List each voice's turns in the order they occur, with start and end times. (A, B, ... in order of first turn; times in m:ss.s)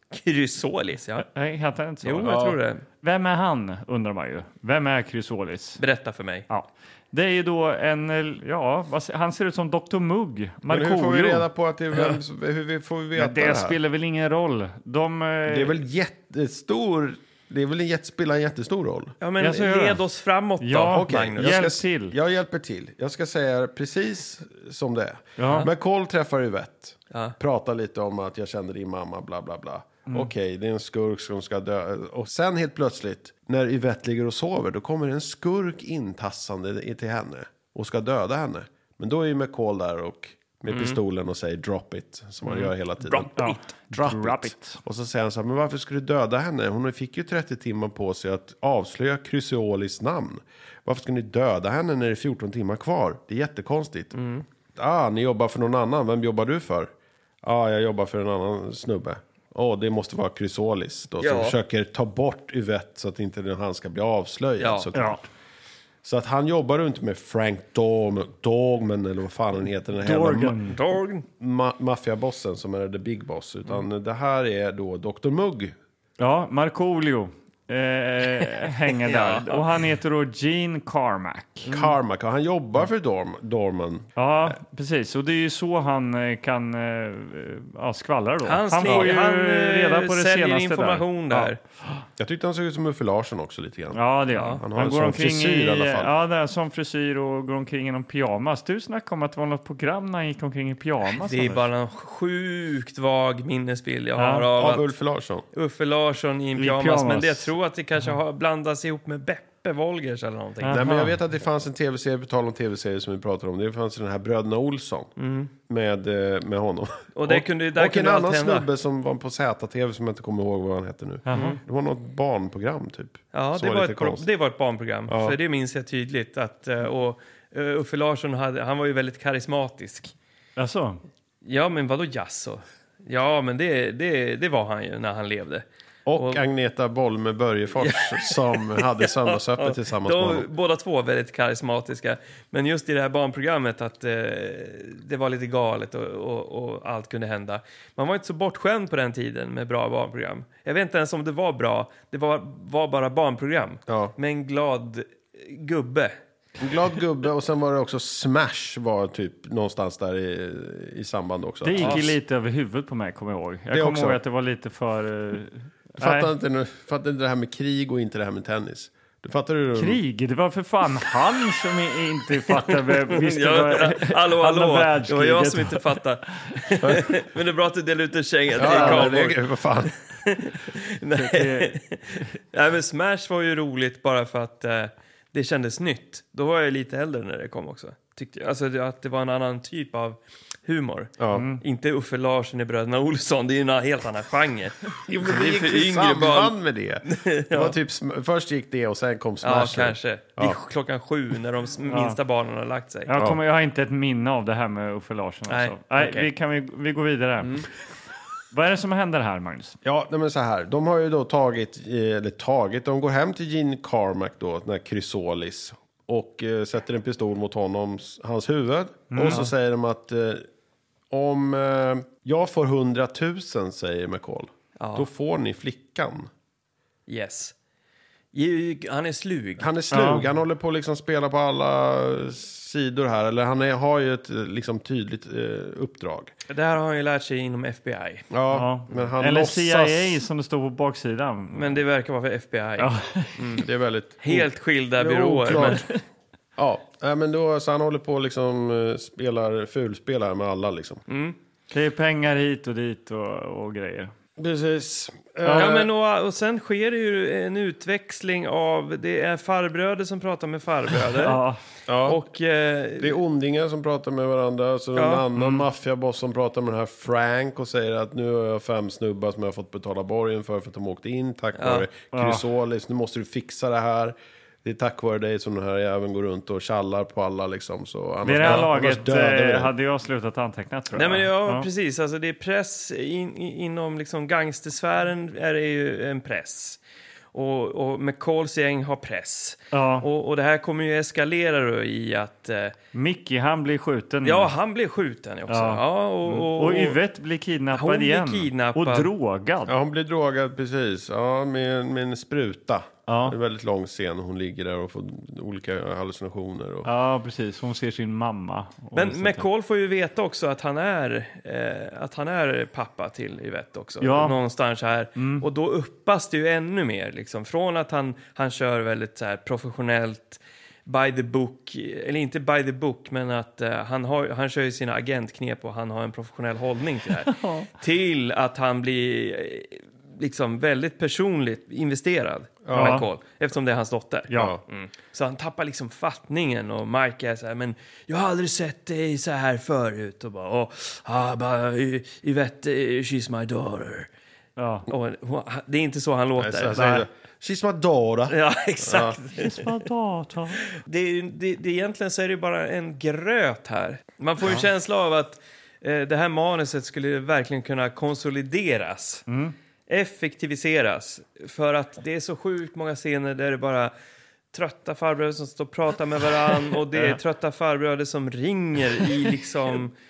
0:00.1-0:01.3 A
0:01.2-0:02.4 B
0:02.0-0:02.8 A
0:02.3-0:02.6 C
0:03.0-0:05.8 B
0:05.8-0:06.5 A
0:06.5-0:11.5 B
0:10.7-0:13.8 C
0:11.9-0:12.2 A
0:13.2-0:15.8 B
0:15.5-0:19.1 C
0:19.2-0:21.6 A
0:19.4-0:20.0 B
0:20.6-0:22.2 B
0:20.9-0:54.2 C
0:25.4-0:25.7 B
0:27.1-0:27.4 A
0:30.1-0:30.3 B
0:40.7-0:41.0 A
0:42.4-0:43.5 A
0:43.4-0:44.8 B
0:54.1-0:54.4 A
0:54.8-0:56.9 C
0:57.4-1:05.3 C
1:01.2-1:01.6 A
1:04.6-1:04.9 A
1:04.9-1:05.2 B
1:06.0-1:10.6 C
1:10.0-1:10.8 B
1:10.7-1:11.2 A
1:11.4-1:15.8 C
1:16.2-1:21.7 B
1:19.0-1:19.7 A
1:21.7-1:22.0 A
1:21.7-1:24.5 C
1:24.2-1:32.0 B
1:28.5-1:31.6 A
1:28.8-1:29.1 C
1:32.2-1:34.0 C
1:34.0-1:41.6 B
1:34.4-1:34.6 A
1:34.6-1:36.1 C
1:41.1-1:44.9 A
1:44.2-1:44.5 B
1:44.6-1:45.4 C
1:45.5-1:50.8 A
1:46.6-1:47.5 B
1:50.6-1:51.1 B
1:50.7-1:55.1 C
1:55.2-1:55.5 A
1:55.7-2:04.3 C
1:57.2-1:58.7 A
2:01.3-2:01.6 B
2:01.3-2:01.6 A
2:03.3-2:10.1 A
2:05.1-2:05.4 C
2:10.6-2:11.0 B
2:11.4-2:15.6 A
2:16.1-2:20.5 C
2:16.2-2:16.4 A
2:17.8-2:36.2 A
2:33.9-2:34.1 C
2:36.6-2:42.0 C
2:41.6-2:46.3 B
2:41.8-2:42.1 A
2:43.7-2:44.2 C
2:46.0-2:50.0 C
2:49.8-2:55.8 B
2:52.5-2:59.4 A
2:56.8-2:57.1 C
2:58.6-2:59.9 C
2:58.6-2:59.1 B
3:00.2-3:16.6 A
3:01.1-3:02.2 B
3:11.2-3:11.4 C
3:11.3-3:11.6 B
3:15.1-3:20.6 C
3:17.1-3:17.8 A
3:19.4-3:23.1 A
3:21.9-3:22.2 B
3:23.1-3:27.6 B
3:25.5-3:26.3 A
3:28.5-3:29.8 B
3:29.8-3:40.5 C
3:39.1-3:39.5 B
3:41.1-3:46.3 C
3:44.8-3:45.1 A
3:47.1-3:47.5 A
3:48.3-3:49.7 A
3:49.6-3:56.3 C
3:49.9-3:50.3 B
3:56.5-3:58.3 A
3:58.3-4:00.2 C
3:58.5-4:01.8 B
4:01.5-4:03.6 A
4:02.8-4:03.4 B
4:03.5-4:05.9 C
4:04.2-4:05.9 A
4:06.6-4:11.0 C
4:11.1-4:11.4 A
4:11.7-4:14.1 B
4:14.4-4:15.9 C
4:15.4-4:15.7 B
4:15.6-4:21.4 A
4:21.2-4:21.6 B
4:21.9-4:22.2 C
4:22.0-4:23.2 A
4:23.0-4:39.7 C
4:25.0-4:25.3 A
4:31.6-4:31.9 A
4:32.1-4:32.4 B
4:38.2-4:41.7 B
4:40.9-4:46.8 A
4:47.3-4:52.8 A
4:49.7-4:50.1 B
4:52.9-4:54.5 B
4:54.2-4:57.0 A
4:55.5-4:59.8 B
4:57.7-4:59.1 A
4:59.7-5:06.9 C
5:03.1-5:03.4 B
5:06.8-5:09.5 B
5:09.0-5:44.1 A
5:14.0-5:14.4 B
5:15.2-5:15.5 B
5:27.3-5:27.7 B
5:32.6-5:33.0 C
5:32.7-5:33.1 B
5:34.3-5:34.6 B
5:34.3-5:34.6 C
5:44.6-5:44.9 B
5:44.9-5:47.1 A
5:46.4-5:49.2 C
5:48.3-5:49.8 A
5:49.3-5:50.6 B
5:50.7-5:59.2 A
5:59.3-5:59.6 B
5:59.9-6:03.9 A
6:04.5-6:09.9 A